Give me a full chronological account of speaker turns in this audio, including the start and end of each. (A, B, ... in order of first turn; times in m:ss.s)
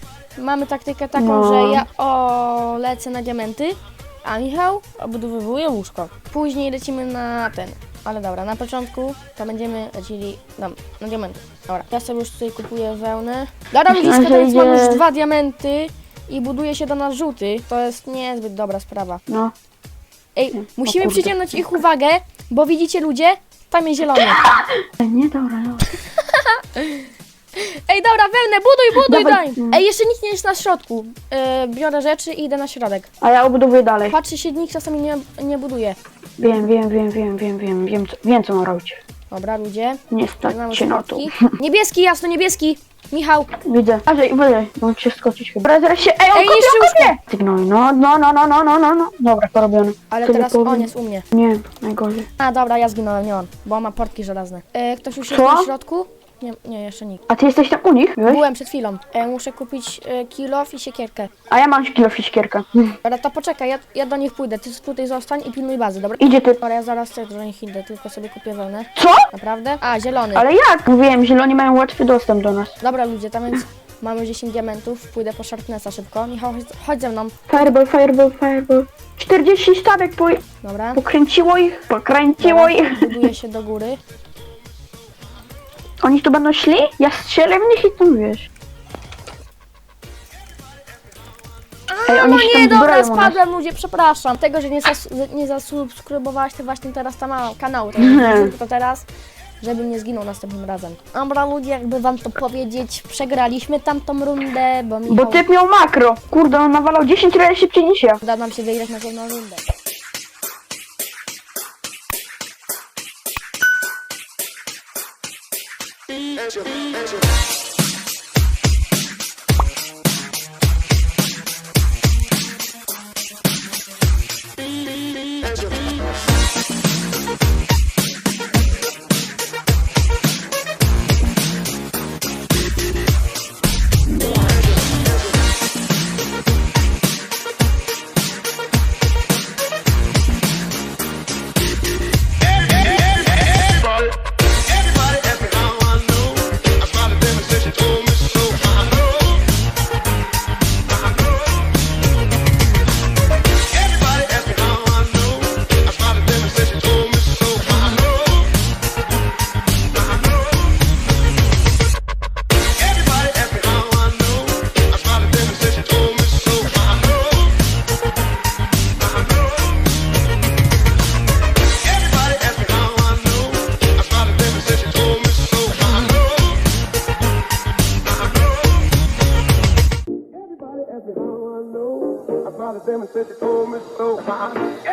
0:00.4-0:19.2 A
0:01.2-0:01.8 B
0:13.9-0:15.0 B
0:19.3-0:19.5 B
0:20.4-0:24.4 A
0:20.6-0:21.8 B
0:24.2-0:25.9 B
0:25.9-0:33.1 A
0:29.0-0:29.8 B
0:33.2-0:34.2 B
0:34.1-0:36.0 A
0:36.4-0:39.0 B
0:39.3-0:43.5 A
0:40.1-0:41.5 B
0:43.6-0:52.3 B
0:46.3-0:47.2 A
0:50.1-0:51.2 A
0:52.4-0:57.2 A
0:55.3-0:55.7 B
0:57.3-0:58.4 B
0:58.3-1:01.3 A
1:01.5-1:03.0 B
1:03.0-1:10.5 A
1:06.2-1:06.6 B
1:09.0-1:09.3 B
1:10.4-1:12.8 B
1:12.8-1:17.7 A
1:17.5-1:20.4 B
1:20.6-1:21.0 A
1:21.0-1:23.3 B
1:22.4-1:24.0 A
1:26.0-1:28.5 B
1:31.9-1:39.1 A
1:32.1-1:33.4 B
1:38.0-1:38.6 B
1:39.6-1:45.5 A
1:45.1-1:48.2 B
1:48.2-1:49.6 A
2:25.4-2:26.2 B
2:27.0-2:28.5 B
2:36.0-2:37.6 B
2:45.3-2:46.1 B
2:54.4-2:54.8 B
3:02.9-3:04.6 B